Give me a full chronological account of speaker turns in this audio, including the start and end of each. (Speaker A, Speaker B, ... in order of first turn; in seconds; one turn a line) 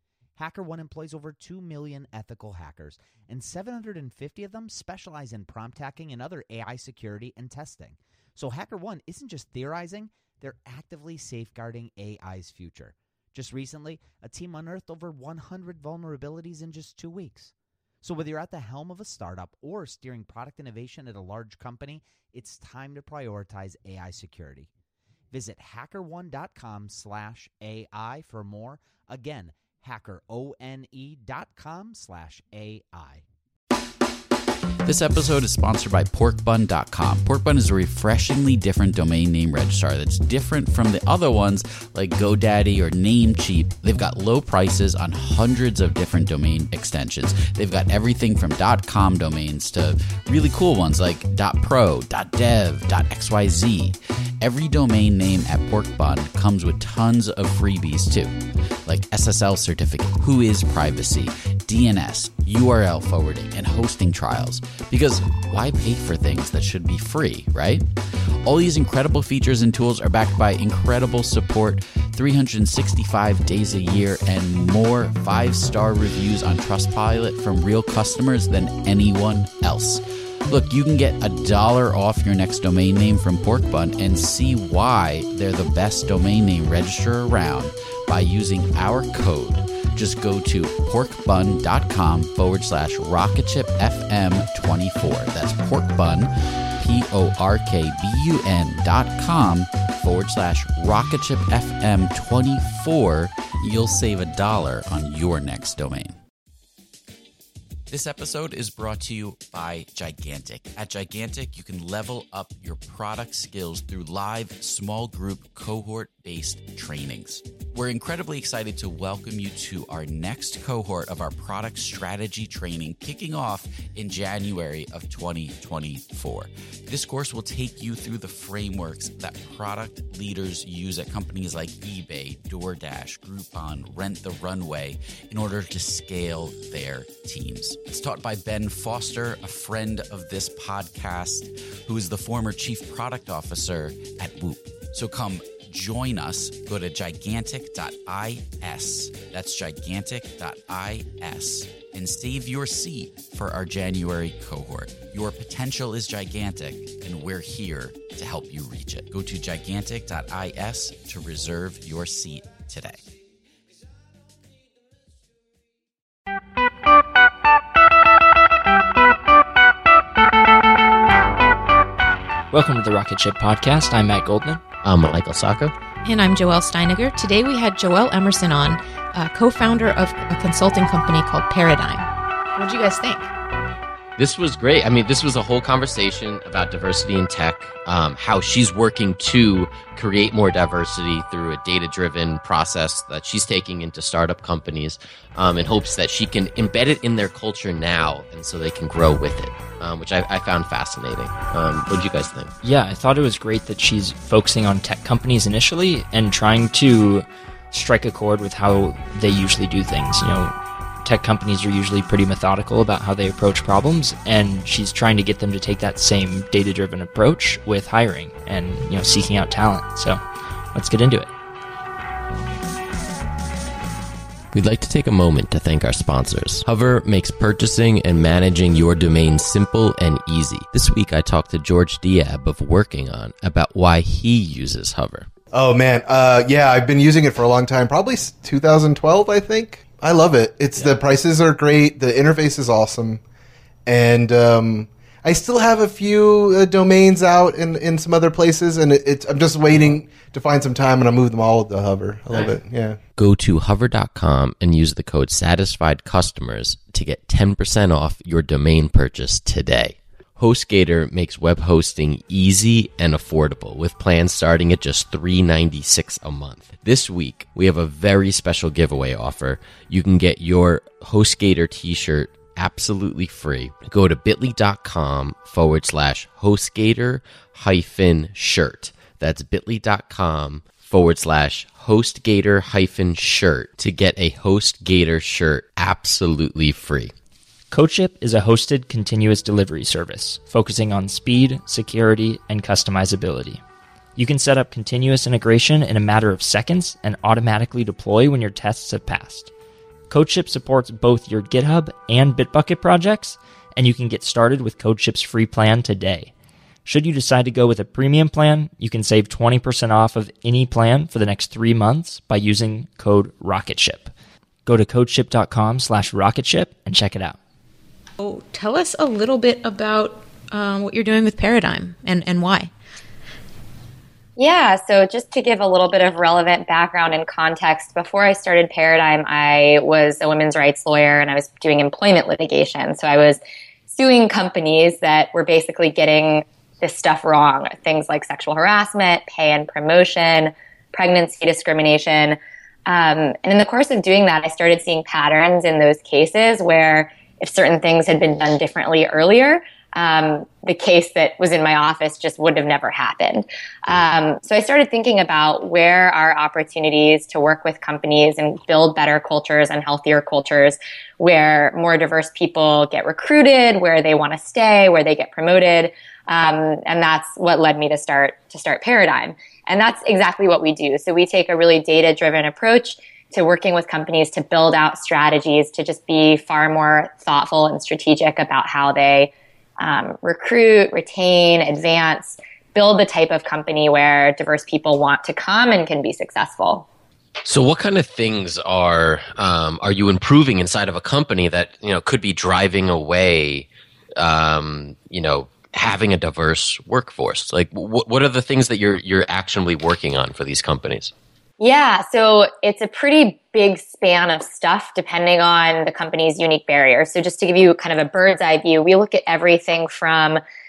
Speaker A: 0.4-24.7
Speaker A: 25.3-33.2
Speaker B: 34.8-67.9
Speaker B: 68.4-106.2
Speaker B: 107.9-163.0
Speaker C: 172.5-174.6
Speaker D: 174.8-175.7
Speaker E: 176.0-183.3
Speaker D: 184.2-202.5
Speaker C: 202.6-220.2
Speaker C: 220.7-221.3
Speaker D: 224.5-235.3
Speaker F: 235.5-243.2
Speaker F: 243.8-253.0
Speaker D: 253.2-287.1
Speaker C: 287.7-293.6
Speaker C: 294.1-299.5
Speaker C: 300.1-306.3
Speaker C: 306.8-314.1
Speaker C: 314.6-317.4
Speaker E: 318.2-322.7
Speaker G: 324.4-386.9
Speaker D: 387.4-401.1
Speaker G: 401.6-410.4